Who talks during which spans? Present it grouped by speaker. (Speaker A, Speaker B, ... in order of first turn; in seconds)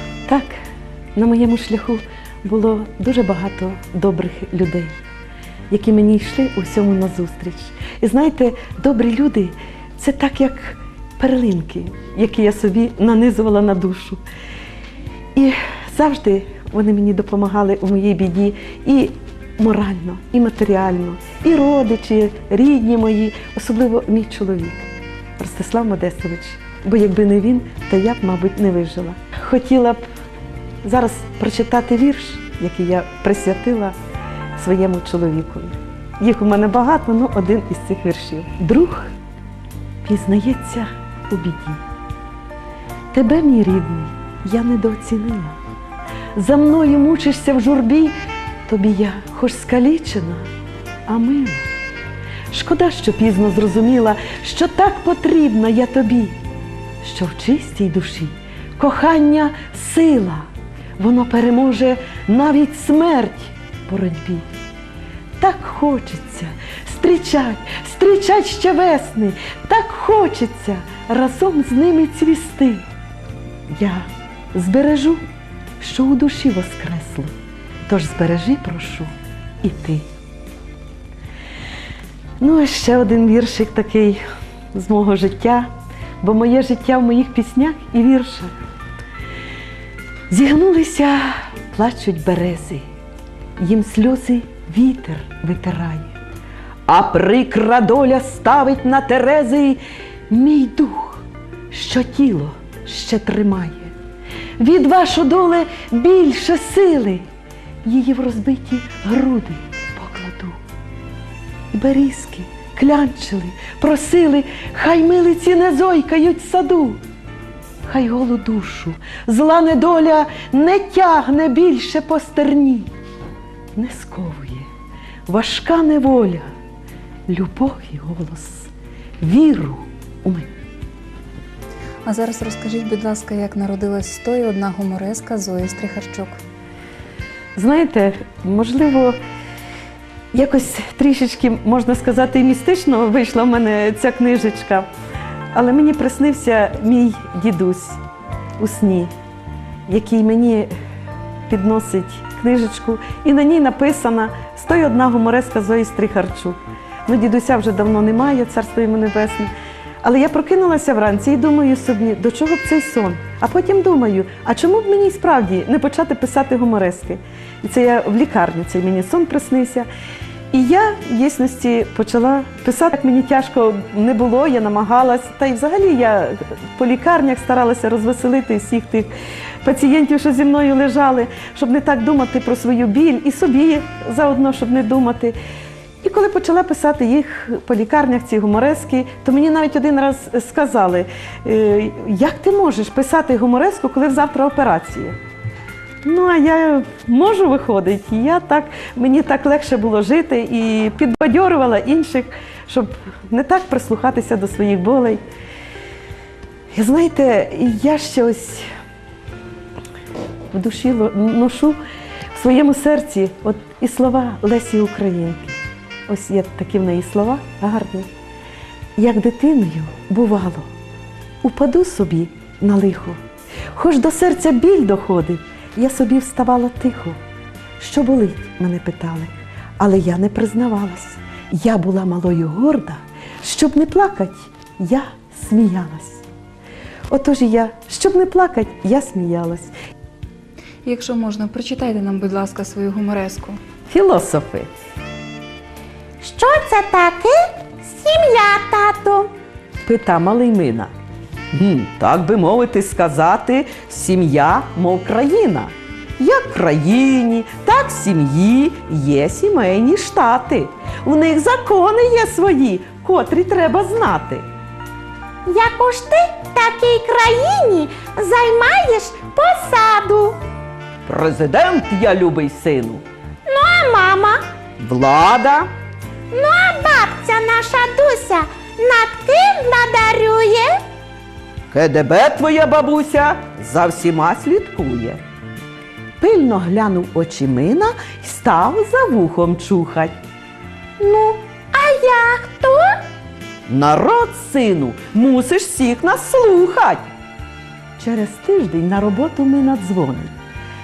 Speaker A: 0.3-0.5, 1.2-5.0, 5.7-14.2, 15.3-30.1, 30.8-33.9, 34.6-39.1, 40.0-41.8, 43.1-45.6, 46.4-50.5, 51.1-51.7, 52.5-56.4, 57.0-64.5, 65.4-72.8, 73.7-75.2, 75.8-77.3, 77.9-80.0, 82.4-84.2, 84.7-88.5, 90.3-92.8, 93.6-96.1, 96.9-103.9, 104.6-107.2, 107.8-110.6, 111.7-117.0, 117.9-122.9, 123.8-124.7, 125.3-126.5, 127.3-128.7, 129.2-130.5, 137.6-139.2, 140.3-144.9, 145.5-148.0, 148.6-149.1, 149.9-150.7, 151.5-169.9, 170.5-179.1, 179.6-185.4, 186.0-195.2, 196.0-205.2, 206.7-208.7, 210.5-211.8, 212.3-218.1, 219.0-220.7, 221.4-223.2, 223.7-227.2, 227.8-236.2, 237.1-239.7, 243.9-244.7, 249.8-250.9, 251.5-264.5, 271.1-273.0, 274.8-275.7, 281.7-285.2, 286.2-290.1, 293.7-297.1, 298.0-300.3
Speaker B: 132.1-136.4, 240.8-243.6
Speaker C: 246.2-249.3, 265.5-270.4, 273.5-274.4, 276.3-280.8, 291.0-292.9